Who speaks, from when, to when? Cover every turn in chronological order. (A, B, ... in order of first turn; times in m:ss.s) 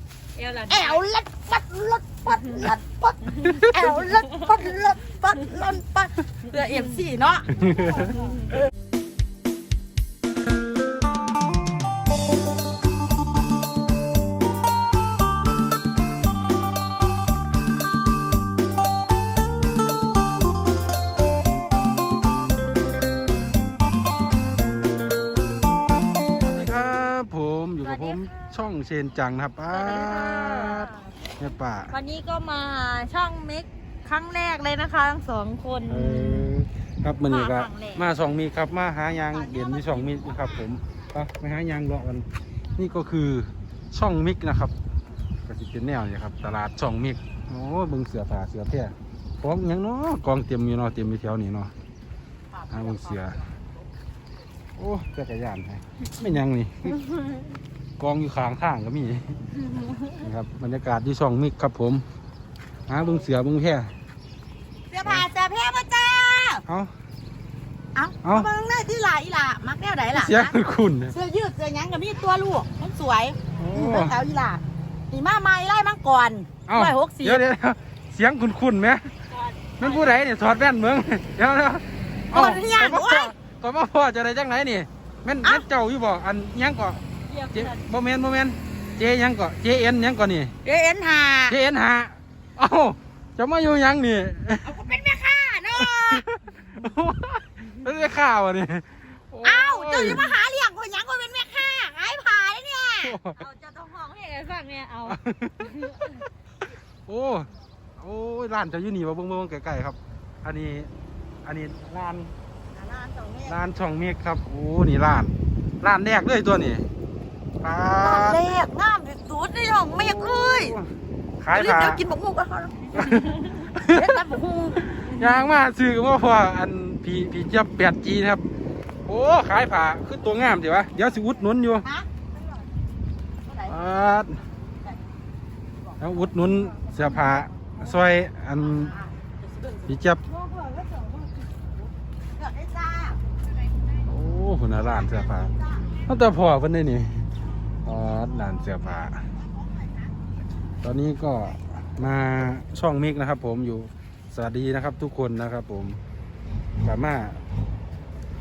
0:00.3-0:01.0 A
0:00.7-0:07.5 B
0:03.4-0:03.7 A
0:03.4-0:03.8 C
0:07.5-0:08.2 C
0:07.7-0:08.5 A
0:26.4-0:31.9 C
0:27.8-0:28.6 A
0:29.7-0:31.0 A
0:31.9-0:36.5 A
0:35.9-0:44.7 C
0:37.2-0:38.0 A
0:39.3-0:40.6 B
0:45.4-0:51.7 C
0:52.5-0:53.6 B
0:52.7-0:53.4 C
0:54.8-0:57.0 C
0:58.0-0:59.3 C
0:59.7-1:00.1 A
1:00.2-1:02.0 C
1:02.9-1:03.9 C
1:04.9-1:06.6 B
1:07.9-1:10.6 B
1:10.1-1:11.1 C
1:11.1-1:17.4 B
1:13.6-1:14.1 C
1:16.7-1:19.0 C
1:19.3-1:20.2 A
1:19.8-1:27.0 C
1:22.3-1:23.4 B
1:27.3-1:27.8 A
1:27.5-1:30.5 C
1:30.6-1:31.6 B
1:31.5-1:34.7 C
1:34.6-1:36.2 B
1:35.7-1:40.4 C
1:39.4-1:43.2 B
1:43.0-1:43.4 C
1:43.3-1:46.2 A
1:45.1-1:46.2 C
1:47.1-1:50.9 C
1:51.4-1:52.3 C
1:52.7-1:53.6 B
1:53.4-1:56.9 C
1:57.6-1:58.4 C
1:58.0-2:00.8 B
1:59.9-2:02.0 C
2:01.5-2:03.0 B
2:02.9-2:04.2 C
2:03.9-2:04.8 B
2:04.8-2:08.4 C
2:09.0-2:11.8 C
2:11.8-2:12.2 B
2:13.4-2:13.8 B
2:13.7-2:14.4 C
2:15.8-2:21.3 B
2:16.0-2:18.9 C
2:19.9-2:20.2 C
2:22.4-2:23.2 B
2:24.0-2:25.5 C
2:24.8-2:25.9 B
2:26.1-2:27.3 C
2:27.8-2:29.2 C
2:29.4-2:30.0 B
2:30.8-2:36.0 C
2:36.8-2:37.4 C